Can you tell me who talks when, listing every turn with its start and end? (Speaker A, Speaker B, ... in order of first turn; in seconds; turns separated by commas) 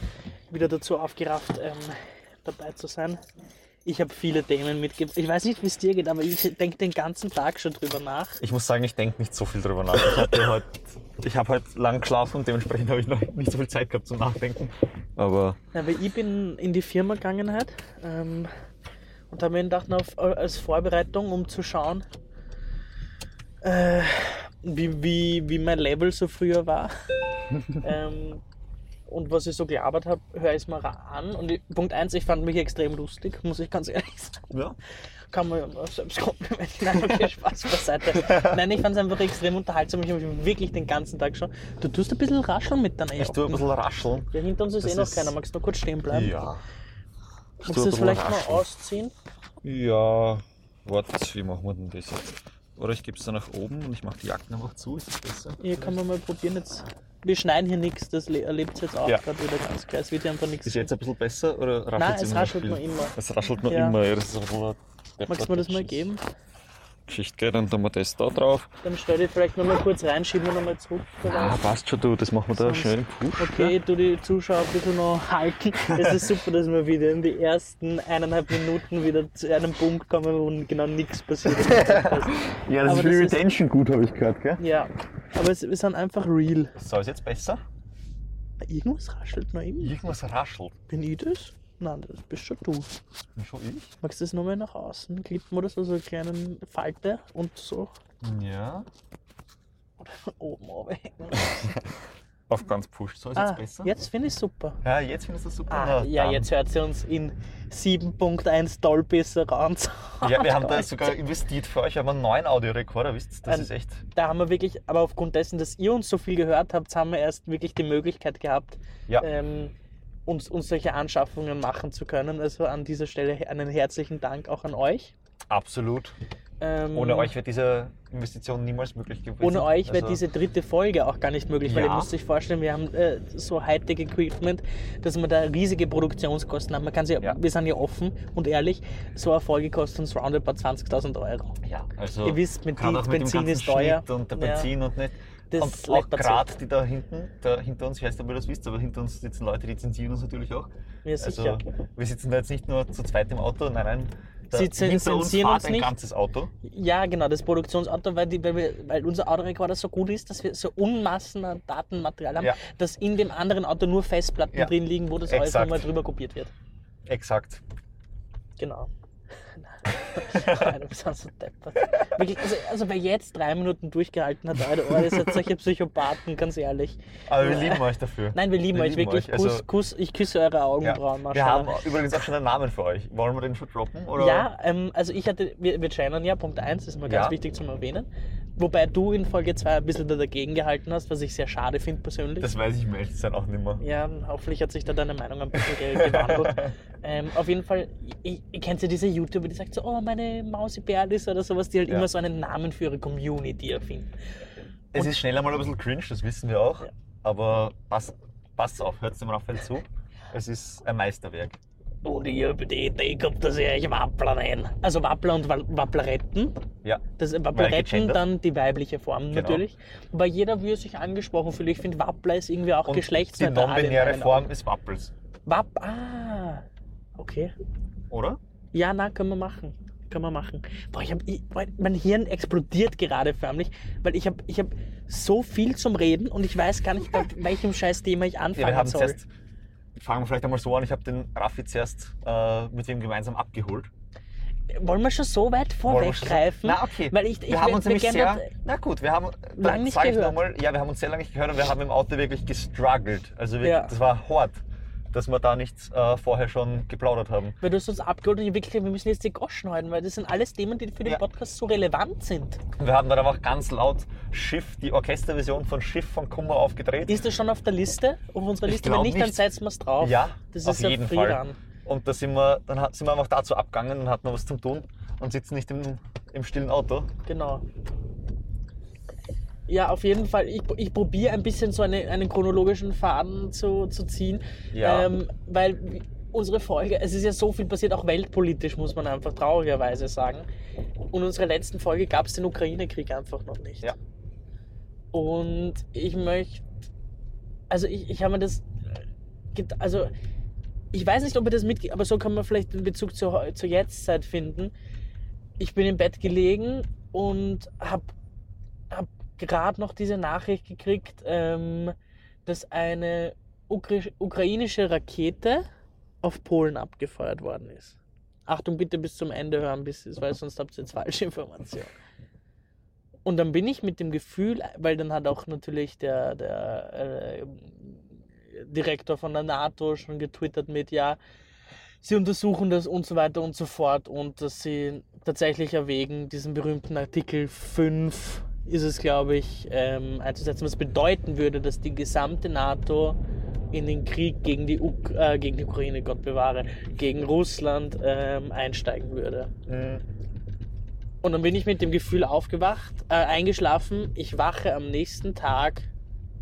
Speaker A: 0.5-3.2, Speaker A: 3.9-8.4, Speaker B: 8.4-15.6, Speaker A: 15.7-18.5, Speaker A: 19.3-22.1, Speaker A: 23.6-27.1, Speaker B: 27.5-27.9, Speaker A: 27.7-28.4, Speaker A: 29.1-34.5, Speaker B: 34.5-34.8, Speaker A: 35.3-43.7, Speaker B: 38.1-38.6, Speaker B: 43.2-44.3, Speaker A: 44.3-46.5, Speaker B: 44.8-45.4, Speaker B: 46.1-46.6, Speaker B: 47.6-48.7, Speaker A: 47.6-49.1, Speaker B: 49.6-55.7, Speaker A: 55.6-60.9, Speaker B: 60.6-66.1, Speaker A: 62.0-64.0, Speaker A: 65.3-66.2, Speaker B: 67.1-68.7, Speaker A: 68.8-71.6, Speaker B: 71.2-73.8, Speaker A: 72.5-83.4, Speaker B: 75.8-76.3, Speaker B: 81.5-84.6, Speaker A: 84.6-86.8, Speaker B: 86.8-87.6, Speaker A: 88.6-90.0, Speaker B: 89.8-90.8, Speaker A: 90.9-93.0, Speaker B: 93.4-93.9, Speaker A: 94.0-97.9, Speaker B: 98.2-98.9, Speaker A: 100.0-101.7, Speaker B: 101.3-102.0, Speaker B: 102.5-103.9, Speaker A: 103.4-104.8, Speaker B: 104.8-106.5, Speaker A: 105.7-111.1, Speaker B: 110.2-114.1, Speaker A: 113.5-119.7, Speaker A: 120.3-125.1, Speaker B: 125.5-126.2, Speaker A: 126.6-127.3, Speaker B: 126.9-130.2, Speaker A: 129.4-141.6, Speaker B: 131.6-132.1, Speaker B: 141.6-156.5, Speaker A: 142.2-144.7, Speaker A: 145.5-146.5, Speaker A: 151.1-151.6, Speaker A: 154.5-155.9, Speaker A: 156.6-166.5, Speaker B: 165.3-165.9, Speaker B: 167.1-167.6, Speaker A: 168.6-181.8, Speaker B: 170.2-170.8, Speaker B: 171.9-172.2, Speaker B: 174.7-175.5, Speaker B: 177.3-179.7, Speaker B: 180.8-184.5, Speaker A: 184.2-192.5, Speaker B: 187.1-187.4, Speaker B: 192.4-193.8, Speaker A: 193.8-204.2, Speaker B: 195.8-196.7, Speaker B: 204.9-211.6, Speaker A: 212.0-216.7, Speaker B: 216.8-218.3, Speaker A: 217.2-224.5, Speaker B: 219.3-219.6, Speaker B: 222.8-225.1, Speaker A: 225.5-226.7, Speaker A: 227.2-227.5, Speaker B: 228.1-228.4, Speaker A: 228.7-239.2, Speaker B: 238.6-239.3, Speaker B: 239.9-243.9, Speaker A: 244.7-248.5, Speaker B: 245.8-257.6, Speaker A: 249.6-250.4, Speaker A: 253.6-253.9, Speaker A: 257.6-262.6, Speaker B: 262.8-267.2, Speaker A: 267.1-271.6, Speaker B: 268.6-277.1, Speaker A: 277.2-277.6, Speaker A: 279.7-290.5, Speaker B: 284.7-285.1, Speaker A: 291.1-293.9, Speaker A: 295.1-296.6, Speaker A: 297.7-300.1, Speaker A: 300.9-304.7, Speaker A: 305.6-308.1, Speaker A: 308.9-311.9, Speaker A: 312.5-315.7, Speaker A: 316.2-321.9, Speaker A: 323.2-331.2, Speaker A: 332.0-343.2, Speaker A: 343.7-349.5, Speaker B: 349.7-350.1, Speaker A: 351.2-355.9